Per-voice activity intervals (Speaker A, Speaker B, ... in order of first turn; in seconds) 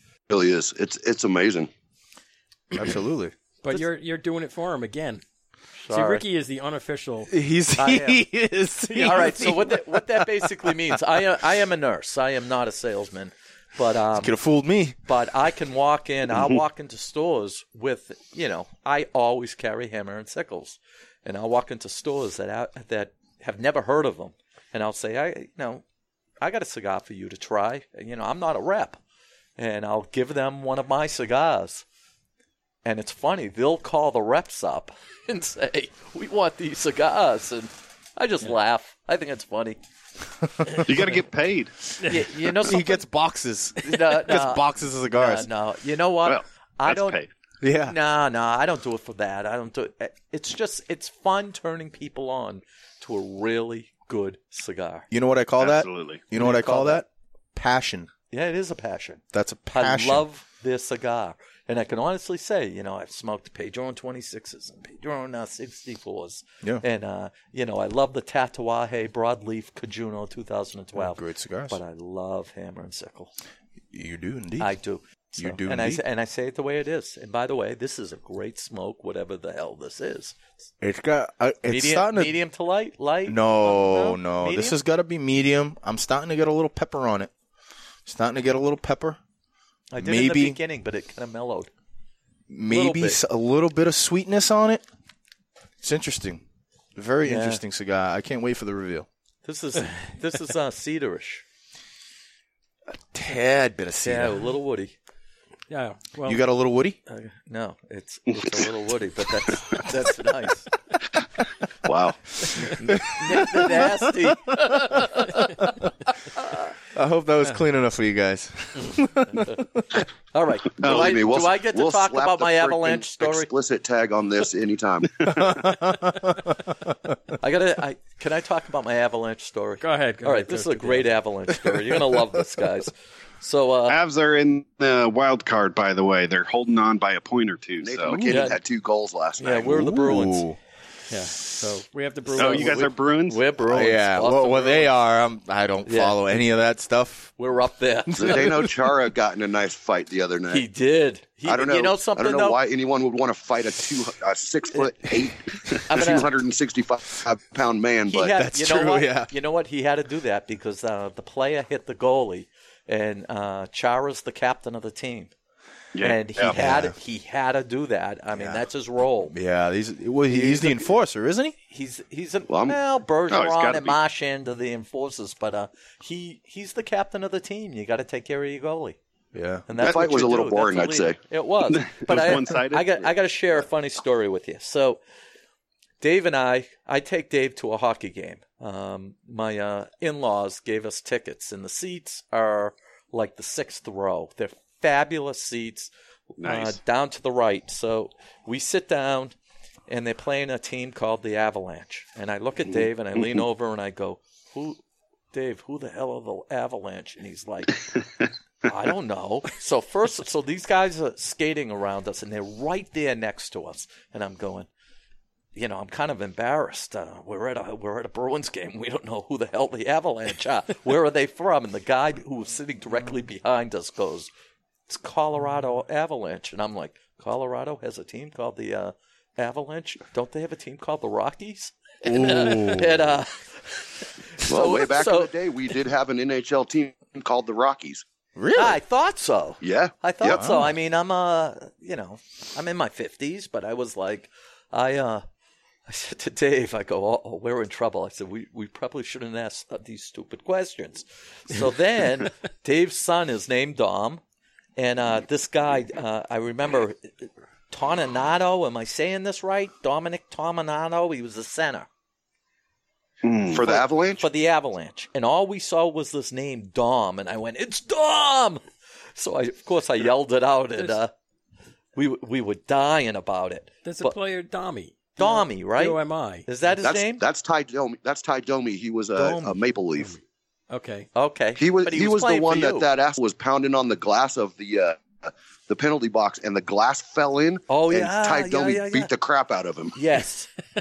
Speaker A: 0.3-1.7, 111.8-112.7, 120.8-125.5, 137.8-139.8, 148.2-150.7, 151.4-158.3, 172.5-172.8, 179.8-181.2, 234.4-238.0, 239.6-240.4, 263.5-264.2, 276.8-280.1, 281.6-289.9
Speaker B: 2.7-3.3, 7.3-11.0, 14.2-15.0, 42.5-45.5, 47.6-48.0, 55.1-58.1, 59.3-60.2, 71.0-71.8, 73.9-74.7, 75.4-76.0, 80.8-82.4, 83.3-87.3, 88.0-89.2, 90.0-90.6, 92.5-94.8, 95.8-96.4, 96.9-99.1, 103.1-104.4, 106.2-107.0, 112.9-114.6, 116.9-120.0, 125.2-126.9, 139.7-140.6, 143.7-147.3, 148.1-148.7, 158.3-159.3, 166.4-166.9, 168.3-168.6, 169.3-171.5, 179.3-179.7, 232.0-233.1, 238.3-238.8, 240.3-240.7
Speaker C: 3.6-5.2, 5.9-7.3, 105.7-106.4, 129.8-131.1, 141.1-142.8, 273.8-276.7, 280.7-281.1
Speaker D: 5.8-6.2, 7.8-8.2, 8.9-14.3, 15.1-25.8, 26.4-29.0, 29.6-31.8, 32.8-39.8, 42.0-43.0, 43.8-47.2, 47.8-55.1, 56.3-57.0, 58.3-73.3, 74.6-80.4, 81.7-84.8, 89.9-91.7, 92.7-93.2, 97.2-97.6, 99.4-101.4, 104.0-104.9, 107.1-110.7, 112.6-115.5, 120.3-123.5, 127.4-134.0, 138.1-138.6, 139.4-140.4, 142.3-144.9, 145.8-146.2, 147.4-148.5, 150.5-152.6, 155.8-156.3, 158.1-165.3, 166.0-169.3, 170.3-170.9, 171.7-179.0, 179.7-185.0, 186.0-199.3, 199.9-204.8, 205.3-207.8, 208.6-214.7, 215.5-224.3, 224.9-235.3, 238.5-245.2, 245.9-254.2, 254.8-261.9, 263.6-268.6, 269.1-271.1, 271.9-274.2, 275.2-277.2, 279.1-279.6, 281.1-282.9, 287.7-289.1, 289.9-290.5
Speaker E: 40.7-41.8, 46.2-47.3, 55.6-56.2, 133.9-138.2, 142.3-143.4, 165.9-166.5, 173.3-174.0, 181.7-183.1, 196.4-196.8, 263.2-263.6